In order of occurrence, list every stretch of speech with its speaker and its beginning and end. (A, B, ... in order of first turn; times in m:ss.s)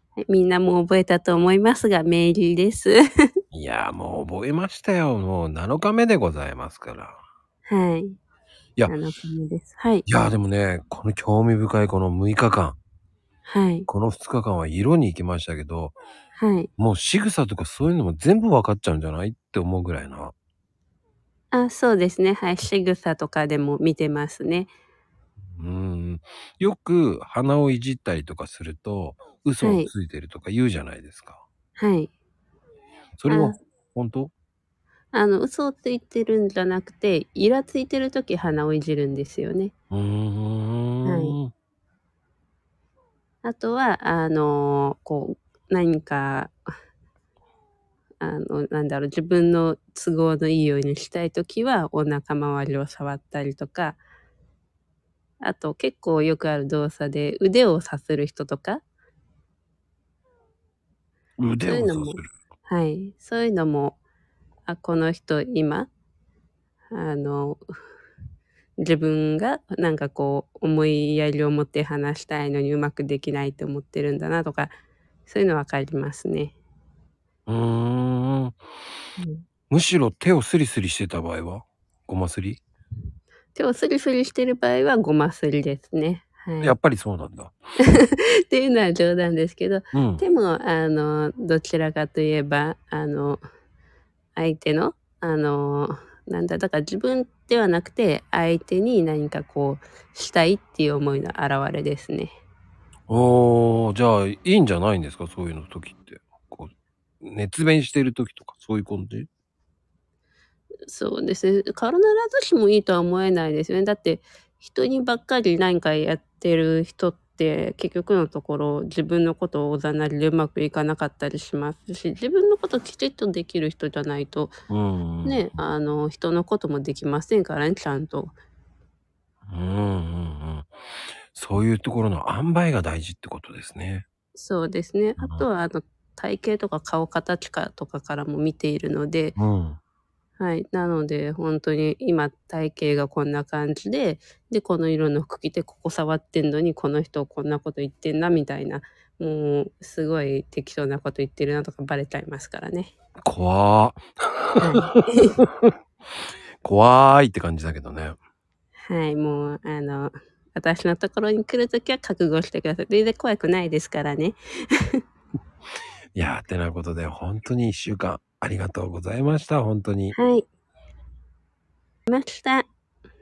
0:00.2-0:03.0 A
0:03.5-0:07.2 B
0:07.6-0:08.2 A
0:08.9-0:10.1 A
0:10.0-0:12.8 B
0:13.5-0:13.9 A
0:13.9-0:16.0 B
0:16.4-0:16.7 A
0:16.8-0:20.3 B
0:21.5-0:24.7 A
0:25.6-0:31.4 B
0:29.6-0:29.9 A
0:31.8-0:32.1 A
0:33.2-0:34.3 B
0:33.3-0:33.6 A
0:35.1-0:39.7 A
0:39.9-0:41.5 B
0:41.0-0:41.4 A
0:43.4-0:46.6 A
0:48.2-0:54.0 A
0:55.4-0:58.8 A
1:01.4-1:02.3 B
1:01.6-1:04.0 A
1:04.7-1:05.9 A
1:06.9-1:07.6 A
1:08.8-1:14.7 A
1:15.3-1:16.5 A
1:17.5-1:18.6 B
1:19.2-1:19.4 A
1:19.7-1:22.6 B
1:23.5-1:26.7 A
1:26.6-1:27.5 B
1:27.8-1:33.4 A
1:29.9-1:30.2 B
1:34.4-1:42.3 A
1:43.1-1:49.3 B
1:50.9-2:04.5 A
2:04.7-2:05.6 B
2:05.2-2:08.3 A
2:09.5-2:10.7 B
2:11.3-2:14.0 B
2:14.3-2:19.4 A
2:15.2-2:15.4 B
2:19.4-2:19.8 B
2:20.4-2:32.9 A
2:33.2-2:35.7 B
2:34.6-2:35.4 A
2:36.6-2:38.2 B
2:38.8-2:45.0 A
2:46.1-2:50.2 B
2:50.1-2:50.5 A
2:52.1-2:52.7 A